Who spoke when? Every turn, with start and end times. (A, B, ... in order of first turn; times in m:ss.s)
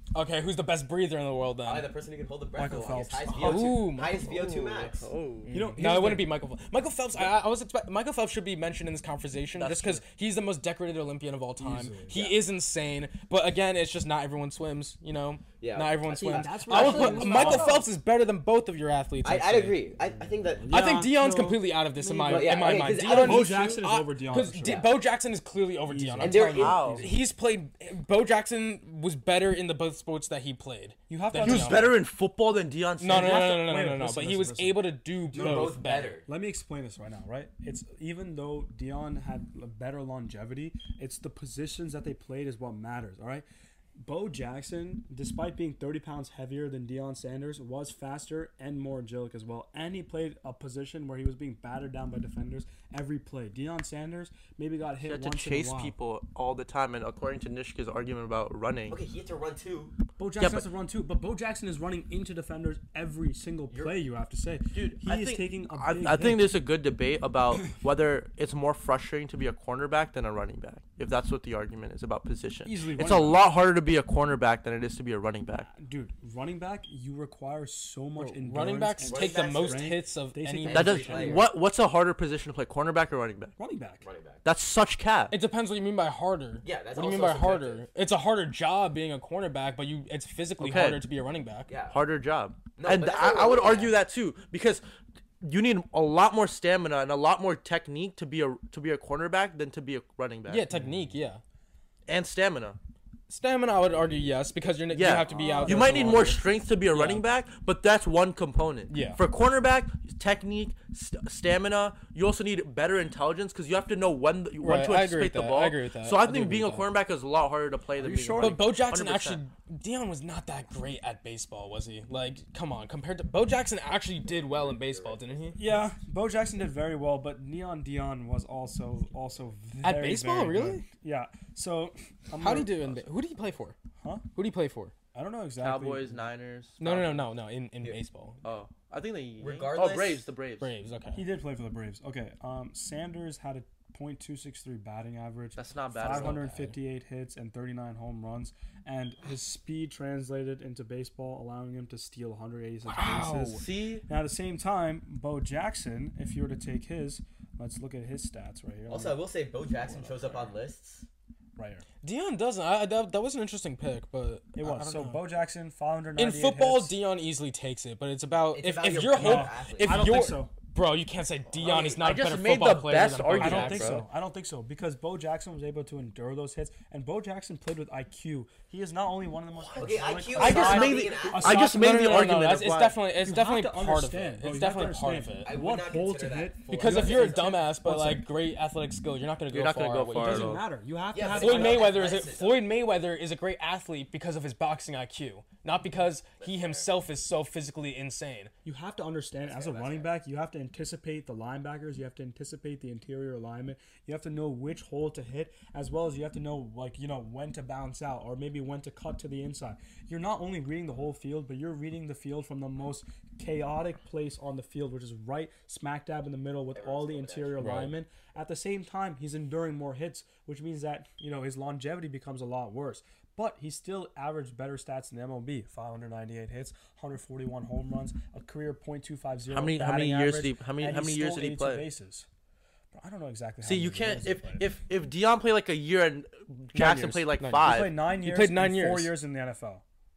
0:00.1-0:01.9 A
0:01.6-0:05.1 B
0:02.6-0:03.4 C
0:03.3-0:04.4 A
0:03.3-0:05.5 D
0:05.5-0:19.8 A
0:05.5-0:06.3 C
0:09.6-0:10.0 D
0:11.6-0:12.1 C
0:12.1-0:12.4 B
0:15.6-0:17.8 B
0:16.2-0:17.9 C
0:16.9-0:17.8 D
0:19.2-0:20.9 B
0:20.6-0:25.0 C
0:20.7-0:32.0 A
0:22.2-0:23.9 B
0:24.6-0:24.9 B
0:25.9-0:27.1 C
0:26.2-0:27.0 B
0:26.5-0:27.1 D
0:31.1-0:32.0 C
0:31.4-0:33.4 D
0:33.0-0:36.2 A
0:33.0-0:55.9 C
0:35.3-0:36.2 B
0:55.0-0:59.0 D
0:58.9-0:59.9 B
1:00.2-1:06.5 C
1:00.4-1:00.6 D
1:04.7-1:15.7 D
1:12.6-1:13.4 C
1:15.7-1:21.4 C
1:18.2-1:21.4 A
1:19.0-1:20.0 B
1:20.6-1:21.5 B
1:20.7-1:23.5 D
1:23.6-1:24.0 C
1:24.0-1:24.4 B
1:24.4-1:25.3 D
1:25.3-1:31.7 A
1:26.6-1:27.8 B
1:30.6-1:31.0 D
1:31.7-1:32.0 B
1:31.9-1:34.8 D
1:32.8-1:34.0 B
1:35.4-1:40.6 D
1:40.5-1:41.4 A
1:40.7-1:41.0 C
1:42.1-1:42.8 D
1:43.3-1:47.2 A
1:44.9-1:59.4 D
1:45.4-1:46.3 C
1:48.9-1:49.2 A
1:54.6-1:56.9 A
1:58.0-1:58.6 C
1:58.4-2:05.6 A
2:04.4-2:05.6 B
2:05.6-2:13.0 C
2:09.8-2:10.8 A
2:12.4-2:13.8 A
2:14.3-2:14.9 A
2:15.1-2:16.2 C
2:15.6-2:17.3 D
2:16.8-2:18.4 A
2:18.4-2:20.7 D
2:19.4-2:20.2 B
2:20.6-2:21.2 A
2:21.1-2:39.2 C
2:25.6-2:26.4 D
2:26.0-2:26.7 A
2:32.8-2:33.6 A
2:33.6-2:34.0 D
2:38.8-2:41.1 B
2:41.6-2:41.8 C
2:42.0-2:45.2 A
2:44.6-2:47.0 C
2:46.2-2:54.0 A
2:48.5-2:50.2 B
2:49.1-2:50.5 C
2:51.5-2:52.0 B
2:52.0-2:54.1 D
2:53.4-3:01.6 C
2:59.6-3:03.0 D
2:59.7-3:01.5 B
3:01.4-3:05.5 A
3:03.2-3:08.3 C
3:05.4-3:07.6 B
3:06.7-3:10.6 A
3:09.5-3:10.6 D
3:10.1-3:11.9 C
3:11.1-3:12.6 B
3:11.3-3:18.5 A
3:16.4-3:16.9 B
3:18.6-3:52.3 C
3:19.4-3:20.2 B
3:36.7-3:37.7 B
3:37.6-3:37.9 A
3:49.5-3:51.9 D
3:52.9-3:54.6 C
3:53.6-3:57.9 D
3:56.7-3:57.7 A
3:57.6-3:59.8 C
3:58.2-3:59.1 A